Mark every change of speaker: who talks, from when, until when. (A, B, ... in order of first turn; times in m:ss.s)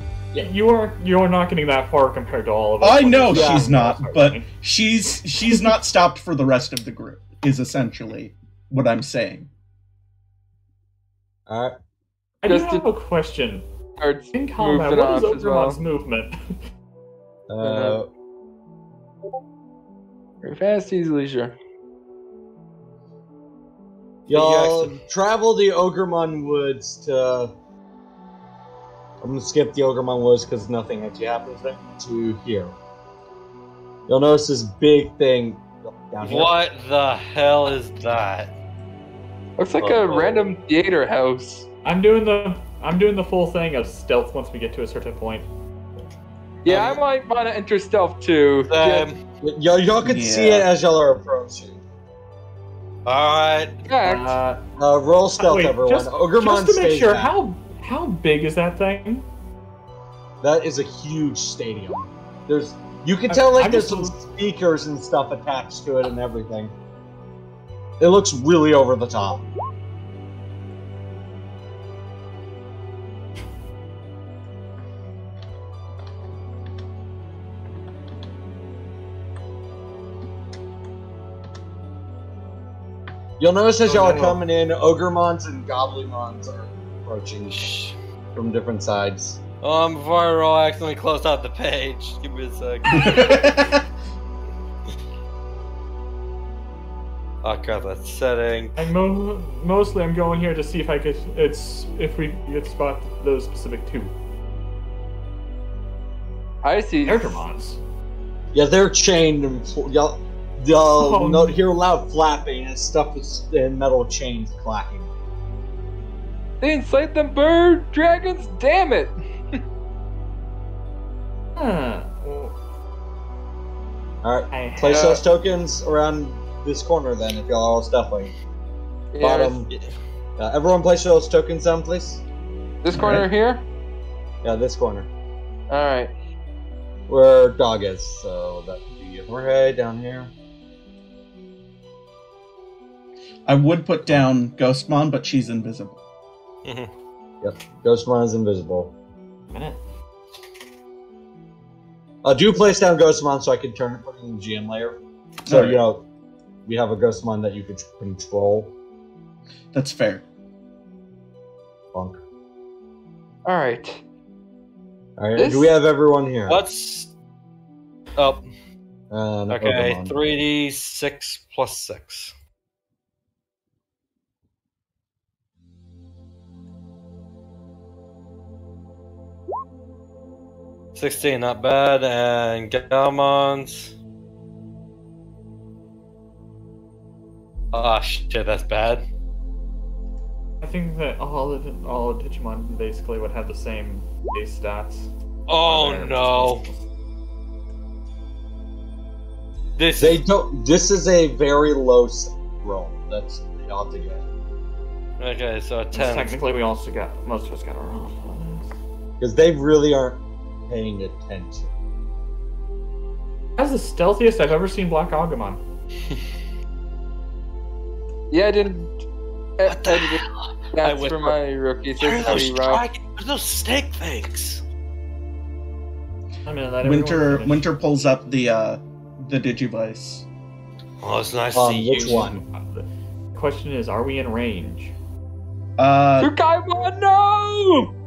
0:00.4-0:04.5 A
0:02.8-0:09.5 B
0:03.3-0:03.7 C
0:11.5-0:11.8 C
0:12.4-0:13.6 A
0:12.4-0:12.8 D
0:14.0-0:15.8 D
0:14.3-0:16.4 A
0:17.5-0:18.1 C
0:17.6-0:18.0 D
0:20.4-0:21.5 D
0:24.3-0:25.0 E
0:24.3-0:27.5 C
0:29.2-0:32.8 C
0:34.1-0:36.6 C
0:36.2-0:38.5 E
0:39.6-0:41.7 D
0:39.8-0:40.4 C
0:41.8-0:45.5 A
0:46.6-0:49.1 D
0:46.7-0:47.0 E
0:48.7-0:49.2 E
0:49.4-0:51.8 C
0:50.0-0:50.7 B
0:53.1-0:53.7 E
0:53.9-0:54.3 D
0:54.0-0:54.6 A
0:54.8-0:57.3 C
0:55.4-0:59.2 A
1:00.4-1:06.7 C
1:03.3-1:04.2 A
1:08.0-1:09.4 C
1:23.4-1:27.8 C
1:23.8-1:24.4 A
1:27.6-1:27.9 E
1:28.3-1:29.4 C
1:29.6-1:33.3 E
1:32.9-1:33.8 B
1:37.4-1:38.8 E
1:38.8-1:44.1 A
1:46.6-1:47.4 D
1:47.0-1:47.8 A
1:48.5-1:55.1 C
1:51.0-1:51.6 A
1:56.6-1:59.1 D
2:01.6-2:02.5 A
2:04.2-2:08.3 C
2:04.5-2:05.2 A
2:04.9-2:05.2 D
2:09.1-2:09.6 D
2:09.2-2:09.7 C
2:10.4-2:12.2 C
2:12.8-2:13.6 D
2:12.9-2:13.3 B
2:14.4-2:15.1 C
2:15.7-2:16.1 D
2:17.1-2:20.3 C
2:23.5-2:26.0 B
2:27.4-2:28.9 C
2:29.5-2:29.8 A
2:32.2-2:36.0 C
2:35.5-2:35.8 B
2:36.7-2:38.7 C
2:39.7-2:40.2 B
2:41.9-2:42.2 C
2:43.4-2:44.0 D
2:45.2-2:46.6 C
2:45.4-2:45.7 D
2:46.5-2:47.1 E
2:48.2-2:48.4 E
2:49.1-2:50.3 C
2:49.5-2:52.3 E
3:01.0-3:03.9 E
3:07.7-3:09.0 E
3:10.6-3:15.1 A
3:15.5-3:16.6 E
3:15.6-3:16.8 A
3:19.8-3:20.2 E
3:20.0-3:24.2 C
3:25.2-3:26.4 E
3:25.9-3:28.7 A
3:29.2-3:31.7 C
3:33.6-3:35.6 A
3:38.3-3:38.9 D
3:39.6-3:40.2 D
3:39.6-3:41.4 E
3:40.8-3:42.8 D
3:42.0-3:44.6 E
3:46.4-3:47.7 A
3:46.8-3:50.2 B
3:51.0-3:52.3 E
3:51.5-3:52.4 C
3:52.0-3:54.9 A
3:55.8-3:56.3 B
3:56.2-3:57.9 D